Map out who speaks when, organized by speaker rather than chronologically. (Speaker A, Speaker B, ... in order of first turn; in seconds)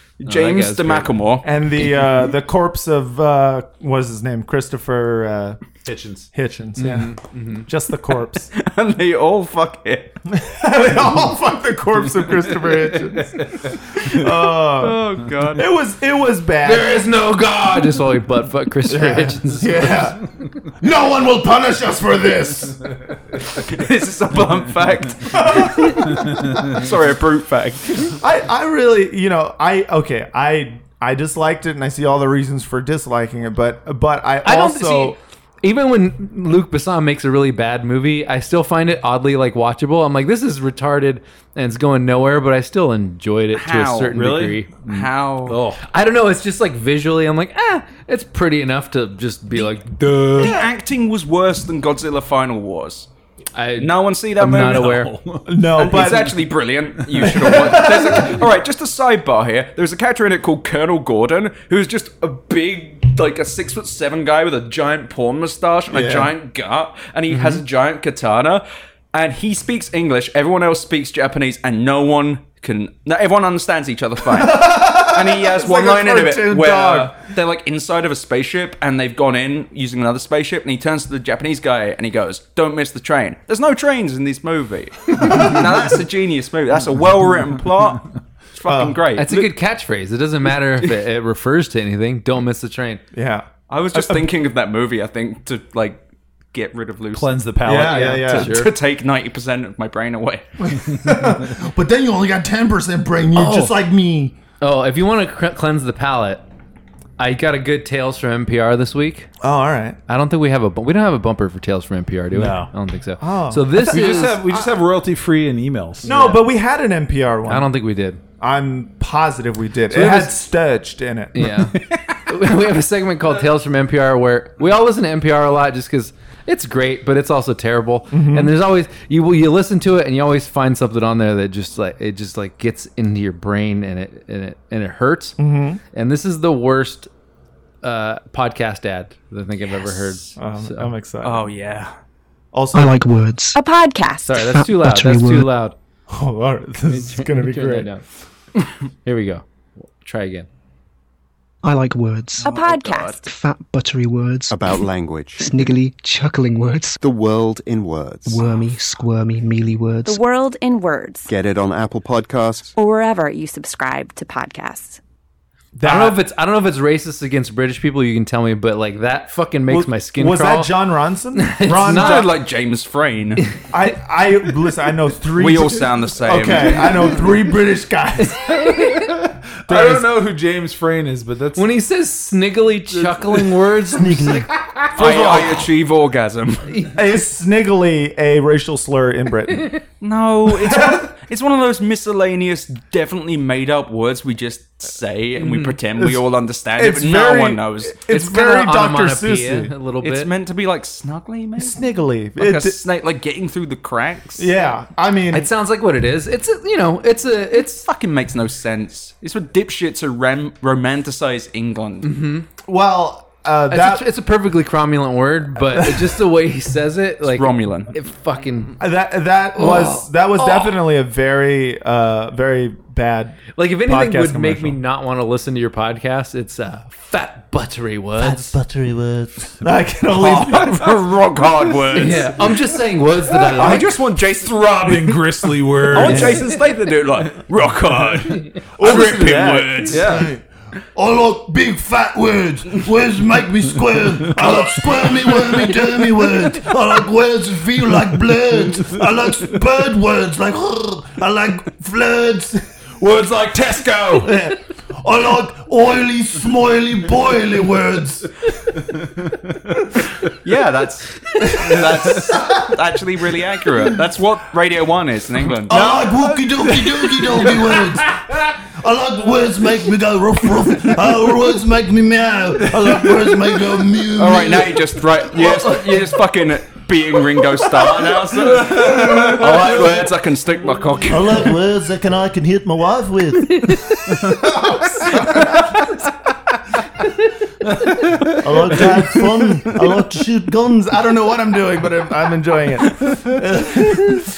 Speaker A: 0.2-1.4, 8.5-10.2, 14.0-15.6, 23.5-28.1, 43.5-44.1, 44.9-45.6, 50.4-53.1, 53.8-55.1, 55.7-89.5, 93.7-96.0, 96.5-100.5, 141.2-141.9, 152.4-153.2, 171.8-173.4, 175.4-177.2, 184.9-186.8, 190.0-198.0, 200.0-201.8, 202.3-204.5, 207.5-212.1, 217.2-217.9, 230.1-232.4, 233.3-240.2, 260.4-265.8, 274.2-281.5
Speaker B: 0.2-1.1, 6.8-7.7, 16.6-20.0, 34.4-45.0, 45.8-50.5, 53.5-55.1, 67.3-67.6, 89.2-93.0, 97.9-98.7, 104.6-106.4, 107.2-109.3, 110.1-114.4, 116.1-116.4, 117.5-118.2, 121.3-135.4, 135.9-137.1, 137.8-140.9, 144.2-145.7, 146.8-148.0, 148.6-150.5, 165.8-170.7, 171.3-172.3, 178.6-178.9, 181.6-184.5, 195.4-195.7, 198.1-200.3, 205.3-207.8, 212.0-212.4, 213.7-218.8, 219.6-220.8, 223.6-228.6, 231.9-233.8
Speaker C: 1.4-5.6, 6.3-8.5, 10.3-13.4, 14.1-15.0, 15.6-17.0, 18.9-20.2, 22.4-22.7, 25.3-26.5, 28.2-35.2, 55.5-56.3, 57.2-58.3, 65.9-66.3, 74.3-77.1, 88.7-89.0, 93.1-94.2, 97.6-98.5, 100.7-104.3, 109.4-110.0, 113.2-114.7, 116.0-117.7, 118.4-121.3, 128.1-128.5, 135.4-135.8, 140.4-141.5, 142.5-143.0, 146.1-147.9, 165.7-166.2, 169.7-172.3, 173.7-178.7, 179.7-180.1, 184.9-185.6, 186.9-189.7, 190.5-191.0, 195.9-196.2, 196.7-199.7, 201.6-202.8, 204.4-205.5, 212.7-214.1, 215.6-216.2, 218.8-224.8, 229.6-230.8, 236.0-236.4, 238.8-240.0, 284.5-285.7, 290.9-294.1
Speaker D: 5.8-6.3, 44.1-44.6, 45.5-45.8, 50.0-50.6, 54.5-55.7, 97.1-98.2, 112.3-112.7, 113.8-116.1, 119.9-120.4, 121.5-122.2, 179.7-181.7, 234.3-236.5, 238.8-240.3, 253.0-254.3, 266.8-267.5, 278.9-279.4
Speaker E: 20.8-22.7, 101.7-103.9, 183.9-184.5, 228.2-229.6, 240.1-240.4, 240.9-252.6, 254.2-258.3, 265.7-274.9, 281.1-283.8, 288.4-290.9
Speaker F: 142.7-143.6, 144.3-145.5, 151.6-157.0, 158.2-160.2
Speaker G: 143.5-144.3, 152.5-153.1, 160.1-161.3, 162.8-165.0
Speaker H: 154.5-155.5, 157.0-158.4, 161.3-162.7